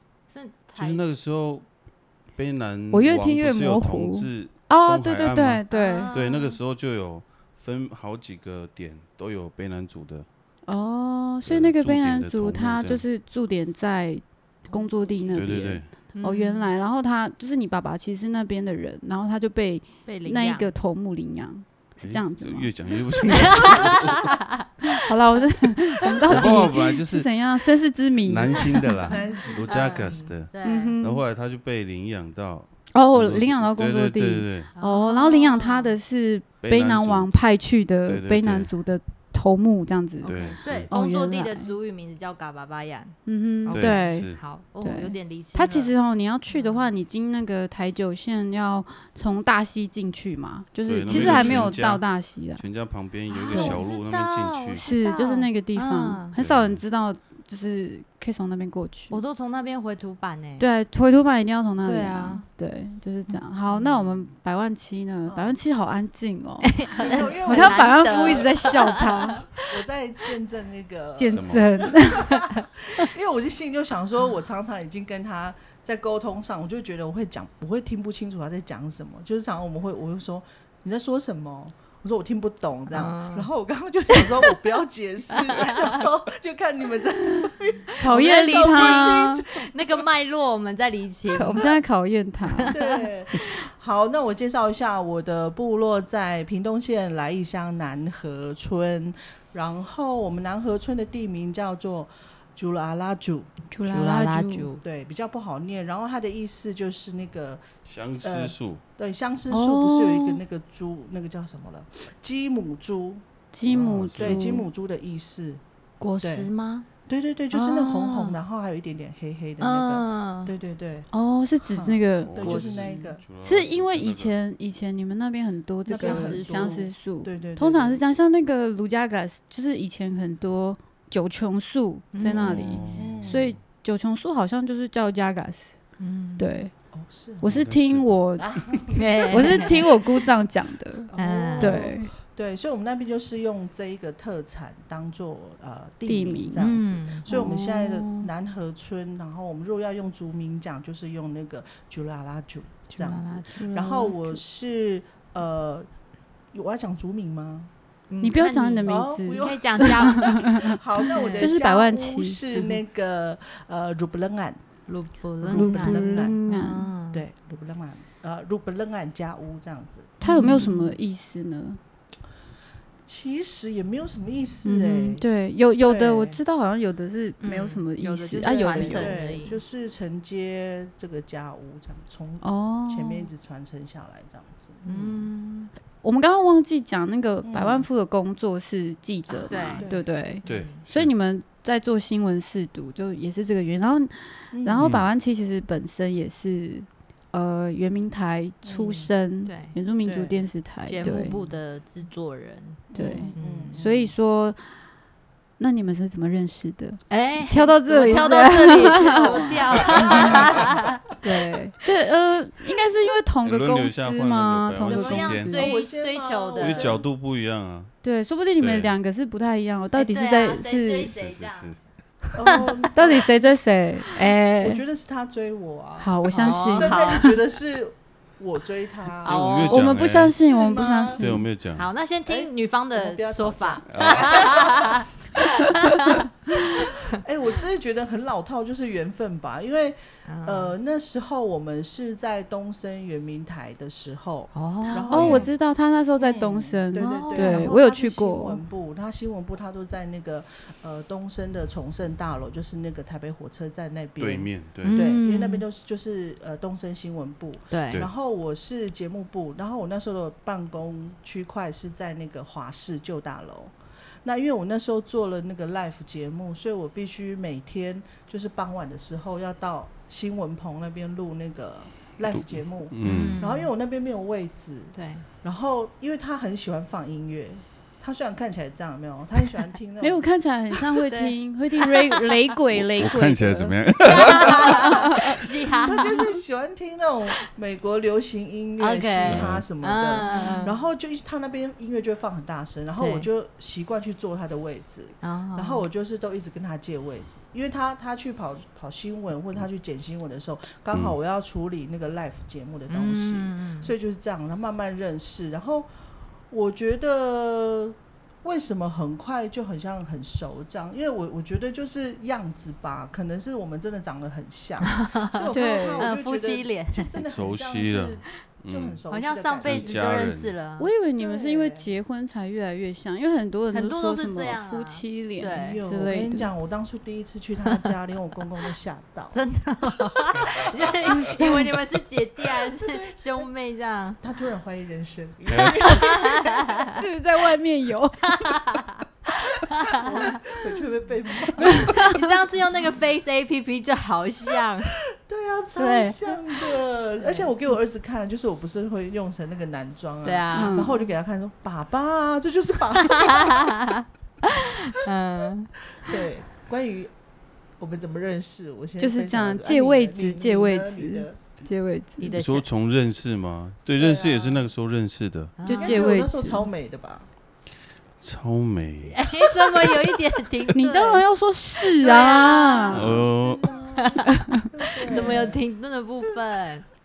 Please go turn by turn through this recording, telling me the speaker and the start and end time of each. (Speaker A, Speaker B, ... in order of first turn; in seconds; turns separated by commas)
Speaker A: 0.3-1.0, Speaker B: 0.8-1.7, Speaker B: 2.3-10.2, Speaker C: 2.9-6.1, Speaker A: 5.7-6.6, Speaker C: 10.7-22.7, Speaker B: 11.4-13.0, Speaker B: 15.3-15.9, Speaker A: 16.1-16.7, Speaker A: 20.1-20.7, Speaker B: 22.0-24.3, Speaker C: 23.3-23.6, Speaker A: 23.3-23.8, Speaker C: 25.0-29.0, Speaker B: 26.2-27.3, Speaker B: 28.2-34.7, Speaker D: 29.1-30.3, Speaker A: 29.7-31.0, Speaker C: 30.6-31.2, Speaker C: 32.9-40.3, Speaker A: 34.8-36.0, Speaker B: 36.6-37.3, Speaker B: 38.0-38.7, Speaker A: 40.2-45.9, Speaker B: 40.2-40.9, Speaker C: 40.9-41.7, Speaker C: 43.2-52.6, Speaker B: 43.7-44.4, Speaker A: 46.5-46.9, Speaker B: 50.9-54.8, Speaker A: 51.1-51.7, Speaker A: 53.3-56.3, Speaker C: 53.5-53.8, Speaker C: 54.8-59.2, Speaker B: 56.3-56.8, Speaker A: 59.1-60.6, Speaker C: 60.6-69.5, Speaker A: 61.8-62.4, Speaker A: 63.3-64.2, Speaker D: 65.2-65.6, Speaker A: 66.6-69.6, Speaker D: 67.0-90.0, Speaker C: 71.1-72.5, Speaker B: 71.3-71.7, Speaker A: 82.9-83.5, Speaker A: 85.3-86.0, Speaker C: 88.0-89.4, Speaker A: 88.0-91.7, Speaker C: 91.3-92.7, Speaker D: 92.7-103.5, Speaker C: 103.7-104.7, Speaker A: 103.9-104.8, Speaker D: 104.8-107.7, Speaker B: 107.9-108.8, Speaker D: 108.2-115.6, Speaker C: 109.5-109.9, Speaker A: 109.7-110.0, Speaker C: 113.5-114.7, Speaker B: 113.7-114.6, Speaker A: 116.0-116.9, Speaker D: 116.2-116.5, Speaker D: 117.1-121.1, Speaker A: 117.5-118.4, Speaker A: 119.6-120.5, Speaker C: 121.1-122.5, Speaker D: 121.6-123.2, Speaker B: 122.2-124.4, Speaker A: 122.4-122.8, Speaker C: 123.4-135.7, Speaker D: 125.9-128.0, Speaker A: 125.9-126.8, Speaker A: 132.1-132.8, Speaker B: 132.2-133.6, Speaker D: 132.9-133.5, Speaker A: 136.0-136.6, Speaker C: 136.4-136.7, Speaker D: 136.9-137.5, Speaker C: 137.4-138.7, Speaker B: 137.4-138.2, Speaker D: 138.4-140.0, Speaker A: 138.9-139.9, Speaker C: 139.3-142.1, Speaker D: 141.1-155.9, Speaker A: 141.2-141.9, Speaker C: 146.1-146.7, Speaker A: 146.6-147.4, Speaker C: 147.3-148.3, Speaker A: 152.9-154.1, Speaker C: 153.7-154.4, Speaker D: 156.5-157.7, Speaker A: 158.1-160.4, Speaker C: 158.2-160.8, Speaker D: 158.8-164.6, Speaker A: 161.1-161.5, Speaker C: 161.4-162.4, Speaker A: 164.8-167.2, Speaker D: 165.4-166.4, Speaker C: 165.5-166.9, Speaker D: 167.1-170.6, Speaker A: 170.2-170.9, Speaker C: 170.2-171.8, Speaker D: 173.1-175.2, Speaker C: 174.6-179.2, Speaker D: 175.8-176.4, Speaker A: 177.4-179.6, Speaker D: 178.4-185.3, Speaker C: 182.4-183.3, Speaker A: 184.8-185.7, Speaker C: 186.0-201.3, Speaker D: 187.4-187.9, Speaker A: 189.3-189.9, Speaker D: 189.8-190.1, Speaker A: 190.4-190.8, Speaker B: 190.4-191.1, Speaker D: 194.5-194.9, Speaker B: 194.8-195.1, Speaker D: 198.6-199.1, Speaker A: 199.4-199.8, Speaker D: 200.0-200.5, Speaker A: 200.8-203.8, Speaker D: 201.0-201.4, Speaker C: 202.9-204.6, Speaker D: 202.9-204.1, Speaker C: 205.6-210.4, Speaker A: 207.1-211.0, Speaker D: 208.0-210.6, Speaker C: 211.2-215.7, Speaker B: 213.4-215.5, Speaker A: 214.8-217.0, Speaker D: 215.4-217.1, Speaker B: 216.6-217.9, Speaker C: 218.0-221.1, Speaker B: 218.6-218.9, Speaker A: 219.9-221.7, Speaker B: 221.1-221.8, Speaker D: 222.3-223.5, Speaker A: 222.4-222.9, Speaker C: 222.9-224.8, Speaker D: 224.6-229.4, Speaker C: 226.0-227.4, Speaker A: 226.3-227.3, Speaker A: 229.2-229.9, Speaker B: 229.2-230.3, Speaker C: 229.7-231.5, Speaker D: 230.2-231.2, Speaker B: 231.1-231.9, Speaker A: 231.8-237.0, Speaker D: 232.2-235.0, Speaker B: 233.9-234.6, Speaker D: 236.6-245.5, Speaker A: 240.2-240.7, Speaker A: 244.5-245.4, Speaker C: 244.9-248.6, Speaker D: 246.2-280.2, Speaker A: 246.9-247.7, Speaker B: 254.2-255.0, Speaker A: 254.8-255.6, Speaker A: 257.7-258.0, Speaker B: 272.9-273.4, Speaker A: 273.0-273.7, Speaker A: 274.9-275.2, Speaker C: 280.0-283.8, Speaker B: 282.7-284.9, Speaker A: 284.0-286.2, Speaker D: 284.1-305.9, Speaker C: 284.9-285.4, Speaker A: 288.8-290.8, Speaker B: 289.2-289.6, Speaker A: 293.0-293.3, Speaker A: 295.2-295.8, Speaker A: 302.9-303.9, Speaker D: 306.5-320.1, Speaker A: 314.9-317.1, Speaker C: 315.5-316.1, Speaker B: 317.2-319.0, Speaker A: 319.1-320.9, Speaker B: 319.6-320.5, Speaker C: 320.8-326.5, Speaker D: 321.2-321.9, Speaker A: 323.7-325.8, Speaker D: 325.5-329.4, Speaker A: 329.3-334.2, Speaker C: 331.1-331.7, Speaker D: 332.7-333.1, Speaker D: 334.2-336.6, Speaker B: 335.5-335.9, Speaker A: 335.6-336.9, Speaker C: 336.8-338.4, Speaker A: 338.3-340.4, Speaker D: 340.0-341.9, Speaker A: 341.6-344.9, Speaker C: 341.6-342.2, Speaker D: 345.1-353.7, Speaker A: 345.8-347.4, Speaker A: 350.2-350.9, Speaker C: 350.5-351.0, Speaker A: 353.0-355.7, Speaker D: 355.9-357.1, Speaker D: 357.8-361.4, Speaker C: 359.0-362.3, Speaker A: 362.2-362.6, Speaker B: 362.3-365.6, Speaker D: 363.9-364.7, Speaker A: 365.6-366.2, Speaker C: 365.6-366.7, Speaker D: 365.7-367.3, Speaker B: 368.2-369.3, Speaker A: 369.1-371.2, Speaker C: 370.7-373.3, Speaker A: 372.0-373.2, Speaker D: 372.0-375.6, Speaker B: 372.9-373.6, Speaker A: 374.0-374.3, Speaker C: 374.3-374.6, Speaker A: 375.0-376.8